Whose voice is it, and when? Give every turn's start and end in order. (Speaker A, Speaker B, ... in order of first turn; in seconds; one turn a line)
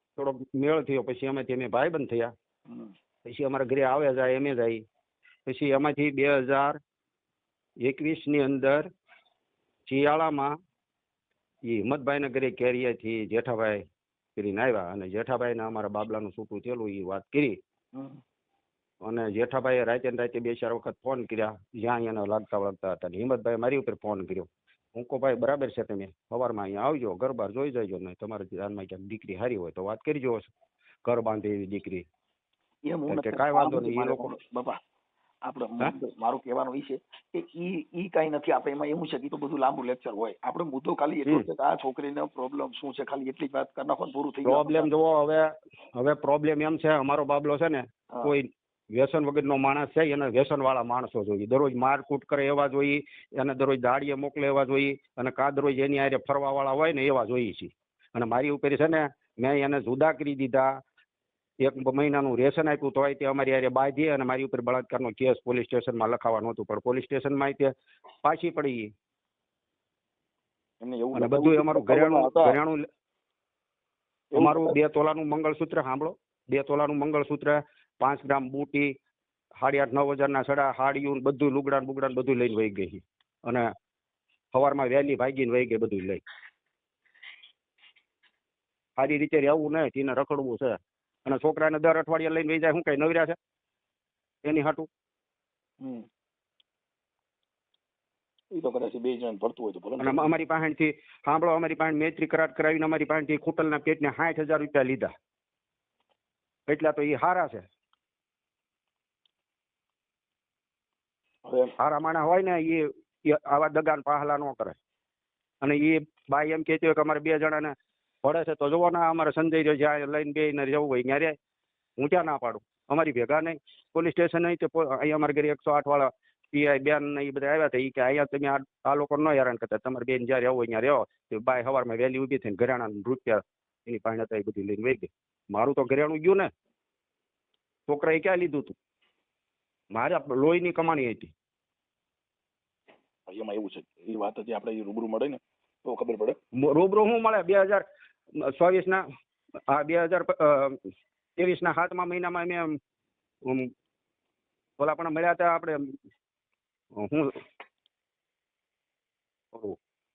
Speaker A: 0.2-2.3
Speaker A: 3.2-4.8
Speaker A: 5.5-6.8
Speaker A: 7.8-8.9
Speaker A: 9.9-10.5
Speaker A: 11.7-13.8
Speaker A: 14.3-17.6
Speaker B: 17.9-18.2
Speaker A: 19.0-30.5
Speaker A: 31.0-32.0
Speaker B: 32.9-34.8
Speaker A: 33.1-34.3
Speaker B: 35.5-44.9
Speaker A: 44.4-45.4
Speaker A: 46.0-60.7
Speaker A: 61.6-67.7
Speaker A: 68.2-68.9
Speaker B: 70.8-72.6
Speaker A: 71.1-72.8
Speaker B: 74.3-74.8
Speaker A: 74.3-78.9
Speaker A: 79.6-83.7
Speaker A: 84.5-86.2
Speaker A: 89.0-93.3
Speaker A: 94.4-94.9
Speaker B: 98.5-100.3
Speaker A: 100.0-105.1
Speaker A: 106.7-107.7
Speaker B: 111.5-111.7
Speaker A: 111.8-114.8
Speaker A: 115.6-117.7
Speaker A: 118.2-121.3
Speaker A: 122.0-136.5
Speaker A: 137.9-138.8
Speaker A: 139.9-141.3
Speaker B: 143.3-146.3
Speaker A: 146.6-147.8
Speaker A: 148.5-149.0
Speaker A: 149.7-150.8
Speaker A: 151.4-152.7
Speaker A: 153.4-153.7
Speaker A: 154.8-155.9
Speaker A: 157.0-157.4